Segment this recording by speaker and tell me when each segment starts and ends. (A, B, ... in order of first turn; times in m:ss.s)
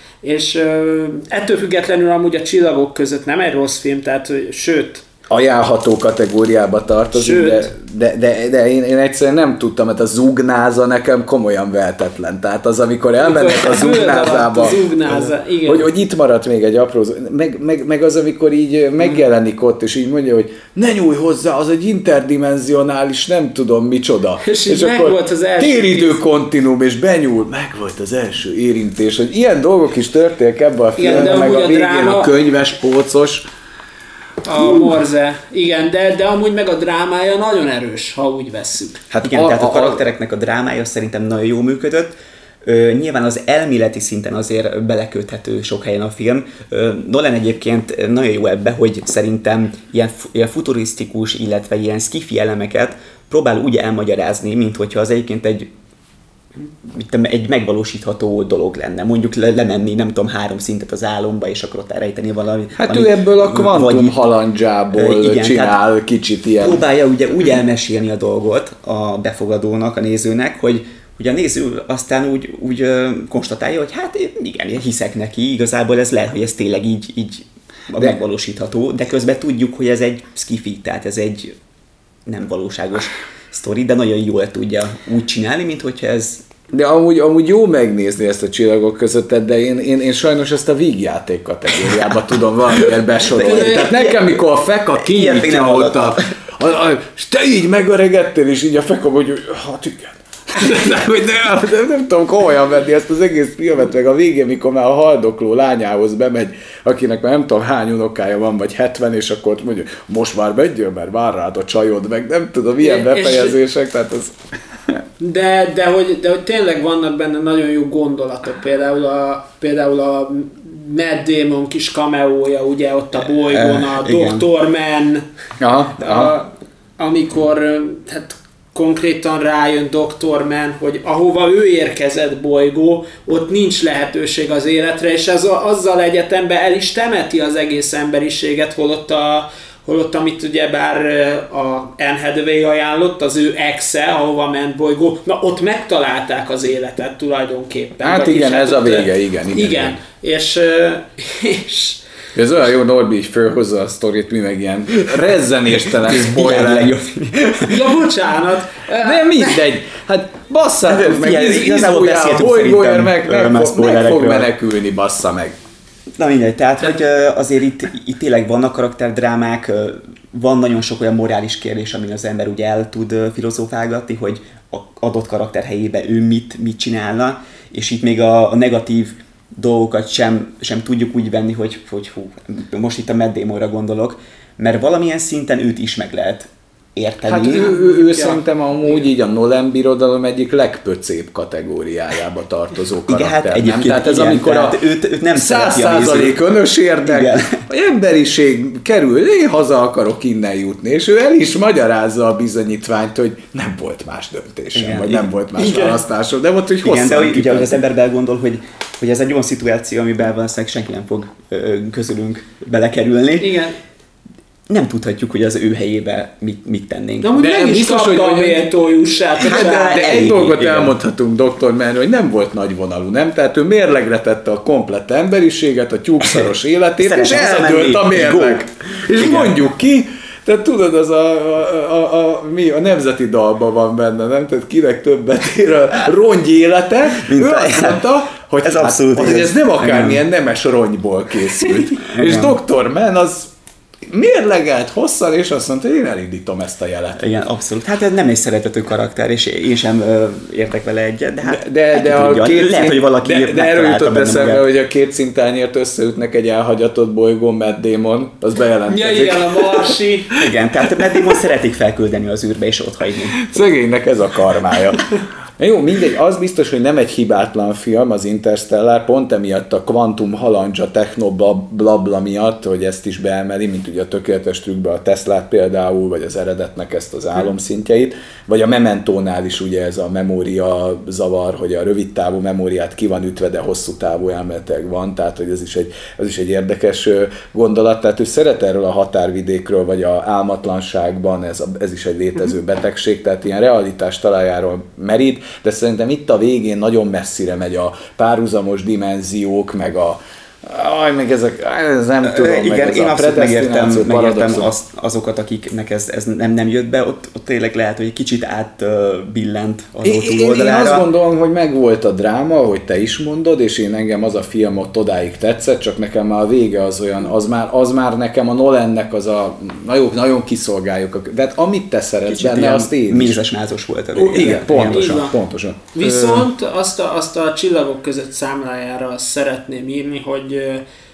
0:00.2-0:05.0 A
0:05.3-0:33.5 B
0:07.1-0:07.7 A
0:13.2-0:15.9 A
0:24.4-0:26.2 A
0:31.0-0:32.3 A
0:34.4-0:39.0 A
0:39.1-0:40.0 B
0:39.2-0:55.7 C
0:56.8-1:04.2 C
1:02.8-1:06.8 B
1:04.9-1:05.8 C
1:06.6-1:21.6 C
1:22.3-1:26.5 C
1:26.7-1:55.0 B
1:33.3-1:33.9 A
1:33.5-1:34.4 C
1:35.0-1:36.3 C
1:52.8-1:53.6 A
1:55.2-2:05.2 A
2:03.5-2:04.4 C
2:05.6-2:06.4 B
2:06.0-2:32.0 A
2:28.0-2:30.0 B
2:32.4-2:37.0 B
2:35.8-2:37.9 C
2:37.7-2:39.6 A
2:39.0-2:45.6 B
2:40.9-2:44.5 C
2:46.2-3:07.7 C
3:07.3-3:14.8 B
3:07.5-3:08.4 A
3:13.1-3:16.5 C
3:15.4-3:27.8 B
3:17.0-3:17.6 C
3:24.7-3:26.0 C
3:26.8-3:33.6 C
3:33.4-3:33.8 A
3:34.7-3:37.4 C
3:37.2-3:40.4 A
3:37.4-3:38.7 B
3:39.4-3:41.0 C
3:39.4-4:03.5 B
3:46.2-3:49.6 C
3:57.2-3:58.1 C
3:58.6-4:00.2 C
4:01.8-4:02.6 C
4:04.1-4:07.2 B
4:07.2-4:14.6 C
4:11.4-4:21.4 B
4:18.9-4:20.4 A
4:20.4-4:23.4 C
4:23.4-5:04.7 B
5:02.2-5:11.1 C
5:10.0-5:23.4 B
5:22.3-5:25.2 C
5:24.1-5:25.8 B
5:24.9-5:25.4 A
5:25.9-5:30.8 A
5:26.0-5:26.5 C